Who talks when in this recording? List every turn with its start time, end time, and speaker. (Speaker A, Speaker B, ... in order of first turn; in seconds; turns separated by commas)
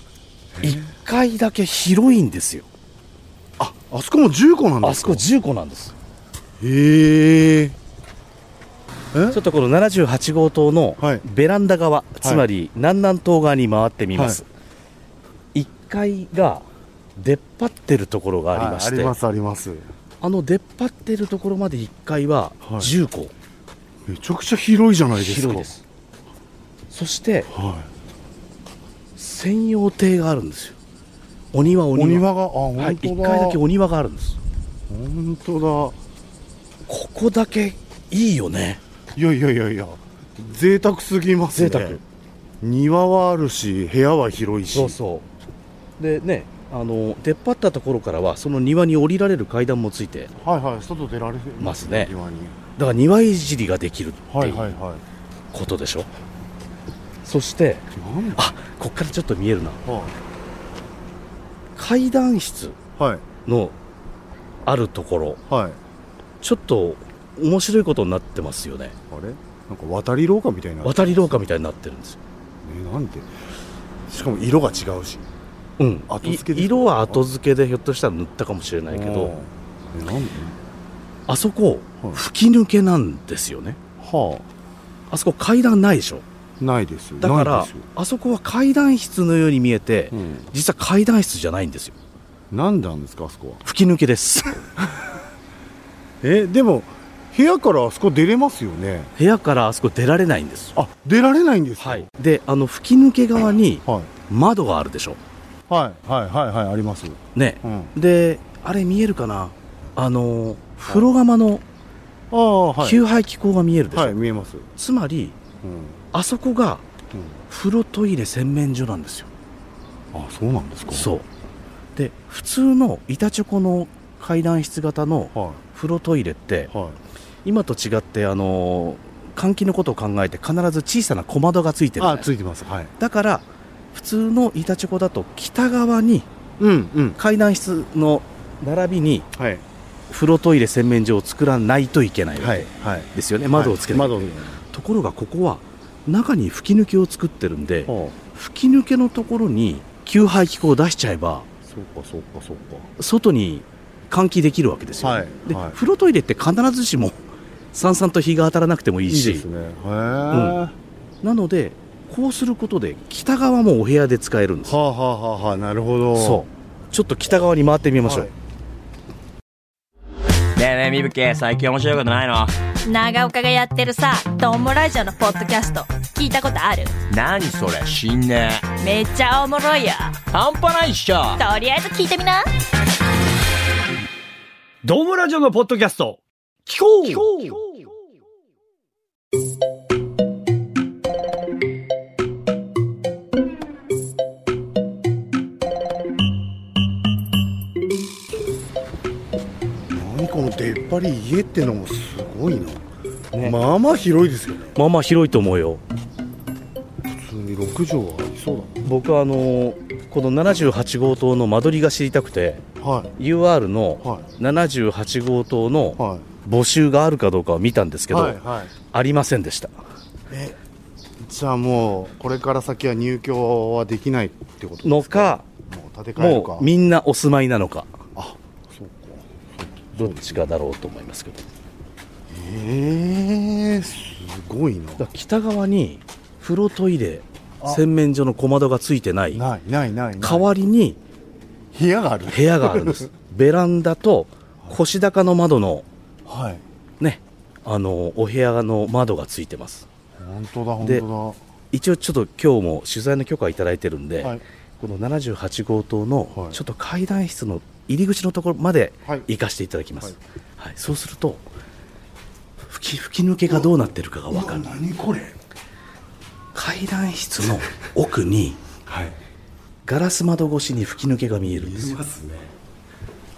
Speaker A: 0.6-0.9, Speaker B: 0.6-2.7, Speaker A: 3.6-5.3, Speaker B: 4.8-6.0, Speaker A: 6.6-7.8, Speaker A: 9.1-9.4, Speaker B: 9.3-14.4, Speaker A: 11.0-11.3, Speaker A: 14.2-14.4, Speaker B: 15.5-16.7, Speaker B: 17.2-19.2, Speaker A: 18.5-19.9, Speaker B: 20.2-23.3, Speaker A: 22.6-22.9, Speaker A: 24.1-25.7, Speaker B: 25.1-25.8, Speaker B: 26.9-27.5, Speaker A: 27.5-27.9, Speaker B: 29.2-30.8, Speaker B: 31.5-32.2, Speaker A: 31.9-33.6, Speaker B: 32.8-34.4, Speaker A: 34.9-36.0, Speaker B: 36.9-38.8, Speaker A: 39.1-42.0, Speaker B: 41.5-42.0, Speaker A: 42.6-45.0, Speaker B: 44.7-45.3, Speaker B: 46.0-50.3, Speaker A: 50.4-52.6, Speaker B: 51.6-52.1, Speaker B: 52.8-54.7, Speaker A: 54.3-55.0, Speaker B: 55.5-56.1, Speaker B: 57.2-57.9, Speaker A: 57.9-58.5, Speaker B: 58.4-59.8, Speaker A: 59.9-60.2, Speaker B: 61.8-62.8, Speaker A: 63.0-63.2, Speaker B: 63.5-63.8, Speaker B: 64.7-65.4, Speaker A: 65.5-65.8, Speaker B: 66.4-69.0, Speaker A: 69.1-71.4, Speaker B: 70.8-72.2, Speaker A: 72.6-73.3, Speaker A: 74.1-75.3, Speaker B: 75.8-79.3, Speaker A: 76.1-77.2, Speaker A: 78.9-80.6, Speaker B: 81.3-83.8, Speaker A: 84.0-84.5, Speaker B: 85.1-86.2, Speaker A: 86.6-87.9, Speaker B: 87.2-92.0, Speaker A: 90.1-90.5, Speaker A: 92.5-93.6, Speaker B: 93.6-94.7, Speaker A: 96.2-99.1, Speaker B: 99.2-100.8, Speaker A: 100.8-102.1, Speaker B: 101.8-105.2, Speaker A: 103.9-104.1, Speaker A: 105.7-107.9, Speaker B: 107.3-111.6, Speaker A: 112.3-113.0, Speaker B: 112.8-114.2, Speaker A: 113.9-114.7, Speaker B: 114.8-115.4, Speaker A: 115.6-116.0, Speaker B: 116.1-116.9, Speaker A: 117.1-117.4, Speaker B: 117.5-119.3, Speaker A: 120.1-121.1, Speaker B: 120.9-121.3, Speaker B: 122.0-126.7, Speaker A: 125.3-125.6, Speaker A: 126.7-127.0, Speaker B: 127.5-132.3, Speaker A: 132.0-132.9, Speaker B: 133.0-136.3, Speaker A: 136.6-137.2, Speaker B: 137.2-139.3, Speaker A: 139.4-139.6, Speaker B: 140.1-151.5, Speaker A: 142.4-144.6, Speaker A: 147.9-148.2, Speaker A: 151.7-152.9, Speaker B: 153.0-157.2, Speaker A: 155.0-155.8, Speaker B: 157.7-159.5, Speaker A: 159.1-160.7, Speaker B: 160.3-160.6, Speaker B: 161.2-164.8, Speaker A: 164.7-166.4, Speaker B: 166.2-168.3, Speaker A: 168.0-168.3, Speaker C: 170.6-172.6, Speaker D: 172.8-177.0, Speaker C: 177.1-178.8, Speaker D: 178.8-180.2, Speaker C: 180.3-181.4, Speaker D: 181.4-182.5, Speaker E: 184.8-187.8, Speaker A: 199.9-202.8, Speaker B: 203.3-203.6, Speaker A: 203.4-204.8, Speaker B: 204.8-205.8, Speaker A: 207.2-208.8, Speaker B: 208.8-212.6, Speaker A: 212.8-213.1, Speaker B: 213.2-219.7, Speaker A: 214.0-214.3, Speaker A: 216.0-216.3, Speaker A: 218.1-218.7, Speaker A: 220.3-220.6, Speaker A: 221.2-226.7, Speaker B: 224.8-225.5, Speaker B: 226.2-227.9, Speaker A: 228.2-230.4, Speaker B: 230.0-231.5, Speaker A: 232.3-235.1, Speaker B: 235.0-239.4, Speaker A: 237.6-237.8, Speaker A: 239.3-240.5, Speaker B: 240.2-241.0, Speaker A: 241.7-243.1, Speaker B: 242.3-245.9, Speaker A: 246.3-246.6, Speaker B: 247.0-249.9, Speaker A: 250.2-251.4, Speaker B: 251.7-261.5, Speaker B: 262.7-264.7, Speaker A: 264.3-265.4, Speaker B: 266.5-268.6, Speaker A: 268.9-269.2, Speaker B: 269.9-272.0, Speaker A: 271.6-272.5